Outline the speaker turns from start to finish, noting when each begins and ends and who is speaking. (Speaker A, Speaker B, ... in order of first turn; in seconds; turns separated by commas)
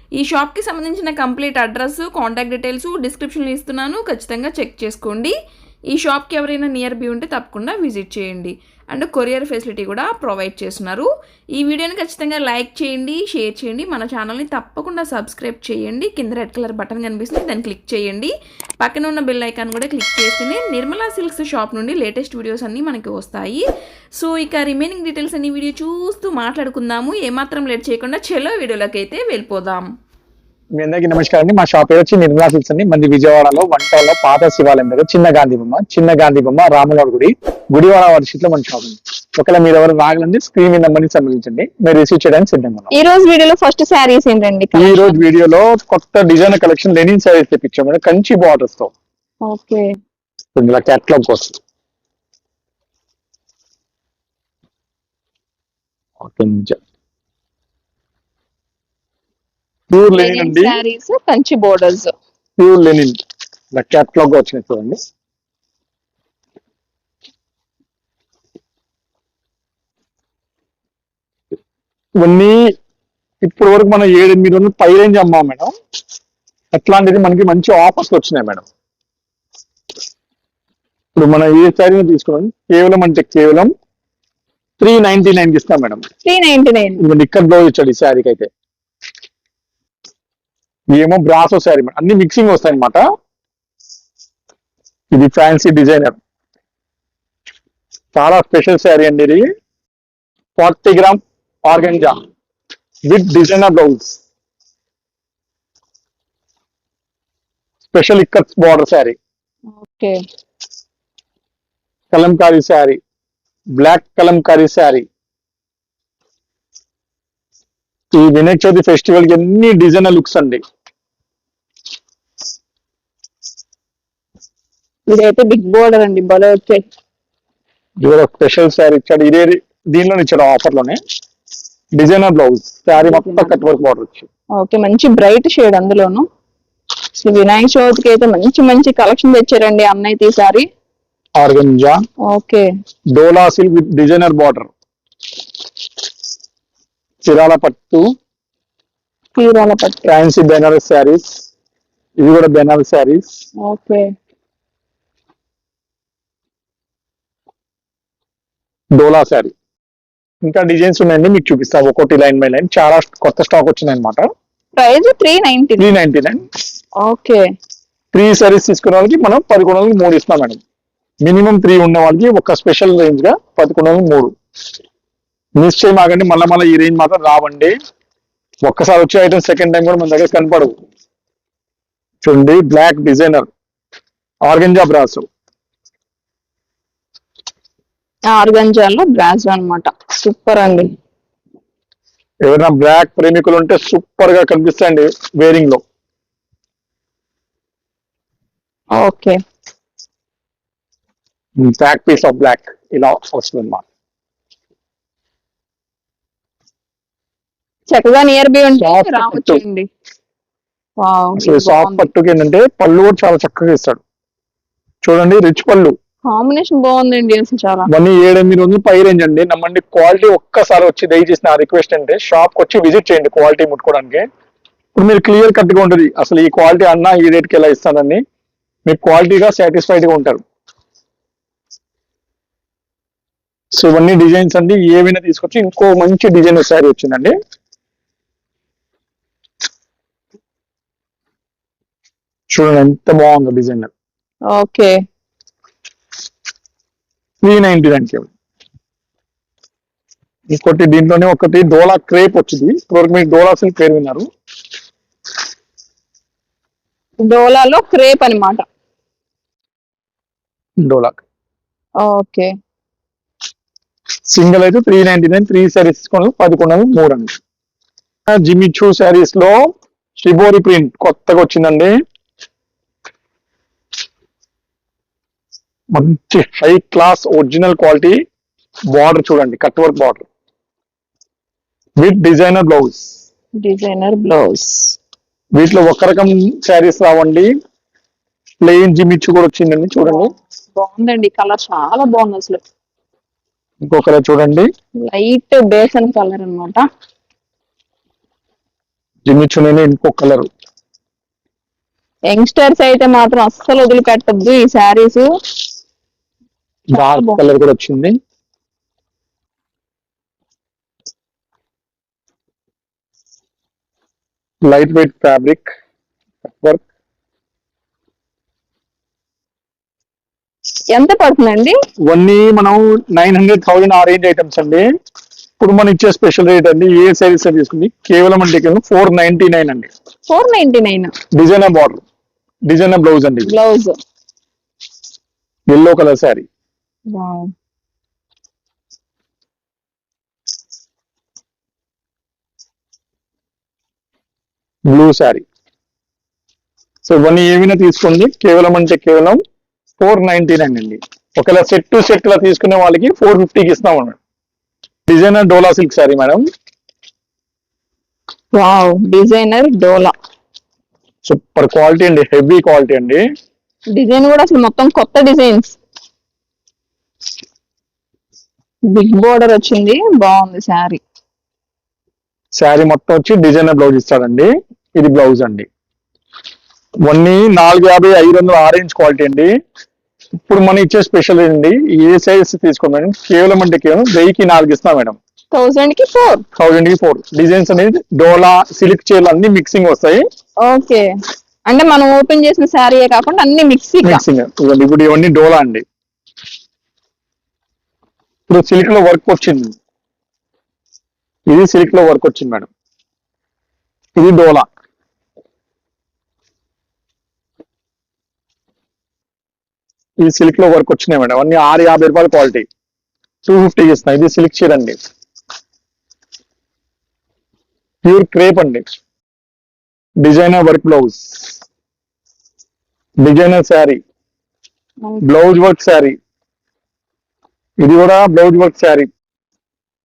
Speaker A: 0.2-1.0, Speaker B: 0.3-5.3, Speaker A: 3.7-4.1, Speaker A: 5.0-5.3, Speaker B: 6.0-8.4, Speaker A: 6.1-11.1, Speaker B: 9.4-10.7, Speaker B: 11.6-12.3, Speaker A: 11.6-18.3, Speaker B: 13.3-13.6, Speaker B: 15.5-17.9, Speaker A: 18.8-23.6, Speaker B: 20.1-20.5, Speaker A: 24.2-29.8, Speaker B: 27.8-29.4, Speaker C: 30.8-42.9, Speaker B: 42.9-45.2, Speaker C: 44.8-48.9, Speaker B: 49.5-49.9, Speaker C: 50.6-51.6, Speaker C: 56.2-56.8, Speaker C: 59.9-60.8, Speaker B: 60.1-62.1, Speaker C: 62.6-63.2, Speaker C: 63.7-65.0, Speaker C: 72.2-72.6, Speaker C: 73.4-75.7, Speaker C: 76.7-78.6, Speaker C: 81.2-83.7, Speaker C: 84.8-86.0, Speaker B: 86.2-87.0, Speaker C: 87.0-88.5, Speaker C: 90.9-93.0, Speaker C: 95.1-96.2, Speaker C: 98.2-99.5, Speaker C: 100.6-102.2, Speaker C: 103.1-104.2, Speaker C: 107.9-109.2, Speaker B: 109.8-110.2, Speaker C: 112.1-113.0, Speaker C: 113.7-115.1, Speaker C: 118.1-120.6, Speaker B: 125.1-126.8, Speaker C: 128.0-131.0, Speaker C: 132.0-134.3, Speaker B: 133.0-133.6, Speaker B: 134.6-136.2, Speaker B: 137.2-140.7, Speaker C: 141.4-142.0, Speaker B: 142.3-142.7, Speaker C: 143.1-144.7, Speaker C: 147.2-148.1, Speaker B: 149.4-150.1, Speaker C: 150.1-151.4, Speaker C: 152.2-153.3, Speaker B: 153.6-154.1, Speaker C: 159.0-159.5, Speaker C: 160.4-164.3, Speaker B: 164.8-165.9, Speaker C: 165.8-166.4, Speaker B: 167.0-167.4, Speaker C: 168.1-170.6, Speaker C: 171.2-174.3, Speaker C: 175.6-177.7, Speaker C: 178.6-180.7, Speaker C: 182.2-183.5, Speaker C: 184.4-185.3, Speaker B: 188.3-190.9, Speaker C: 192.4-195.8, Speaker B: 198.9-199.4, Speaker C: 201.6-203.8, Speaker B: 207.9-209.9, Speaker C: 208.8-209.6, Speaker B: 211.0-212.1, Speaker C: 211.4-214.0, Speaker C: 215.0-215.9, Speaker B: 216.3-217.9, Speaker C: 217.9-224.2, Speaker C: 225.0-228.2, Speaker C: 228.9-230.4, Speaker C: 233.8-237.3, Speaker C: 242.5-243.9, Speaker B: 244.5-244.9, Speaker C: 247.4-248.3, Speaker C: 250.5-254.2, Speaker B: 257.2-258.6, Speaker C: 260.8-261.2, Speaker B: 262.0-262.5, Speaker C: 264.3-267.4, Speaker C: 268.3-271.9, Speaker C: 275.9-278.2, Speaker C: 278.9-280.2, Speaker C: 282.0-283.2, Speaker B: 283.6-285.0, Speaker C: 285.5-287.5, Speaker C: 288.6-290.3, Speaker B: 290.1-292.6, Speaker C: 293.8-294.7, Speaker B: 295.1-296.9, Speaker C: 299.2-300.5, Speaker B: 302.3-305.3, Speaker C: 306.9-308.1, Speaker B: 306.9-307.4, Speaker C: 314.7-315.7, Speaker C: 316.4-316.8, Speaker B: 320.9-321.8, Speaker C: 322.1-324.9, Speaker C: 325.6-329.9, Speaker B: 330.3-331.1, Speaker C: 331.3-332.0, Speaker C: 332.7-333.5, Speaker B: 333.5-333.9, Speaker C: 335.7-336.5, Speaker B: 337.1-337.5, Speaker C: 344.9-345.4, Speaker C: 347.1-349.4, Speaker C: 350.0-354.2, Speaker C: 355.1-356.4, Speaker B: 358.5-360.1, Speaker C: 361.3-363.2, Speaker B: 363.9-365.8, Speaker B: 368.9-371.0, Speaker C: 372.6-375.7, Speaker C: 377.1-379.5, Speaker C: 380.5-385.2, Speaker B: 385.5-386.4, Speaker C: 386.6-390.2, Speaker B: 390.6-391.1, Speaker B: 391.7-394.2, Speaker C: 394.0-395.8, Speaker C: 398.5-399.8, Speaker C: 401.5-402.7, Speaker C: 404.2-404.7, Speaker C: 410.2-412.7, Speaker C: 413.5-415.0, Speaker C: 418.1-419.0, Speaker C: 420.2-421.6, Speaker C: 423.2-424.0, Speaker C: 425.2-426.2, Speaker C: 427.8-429.1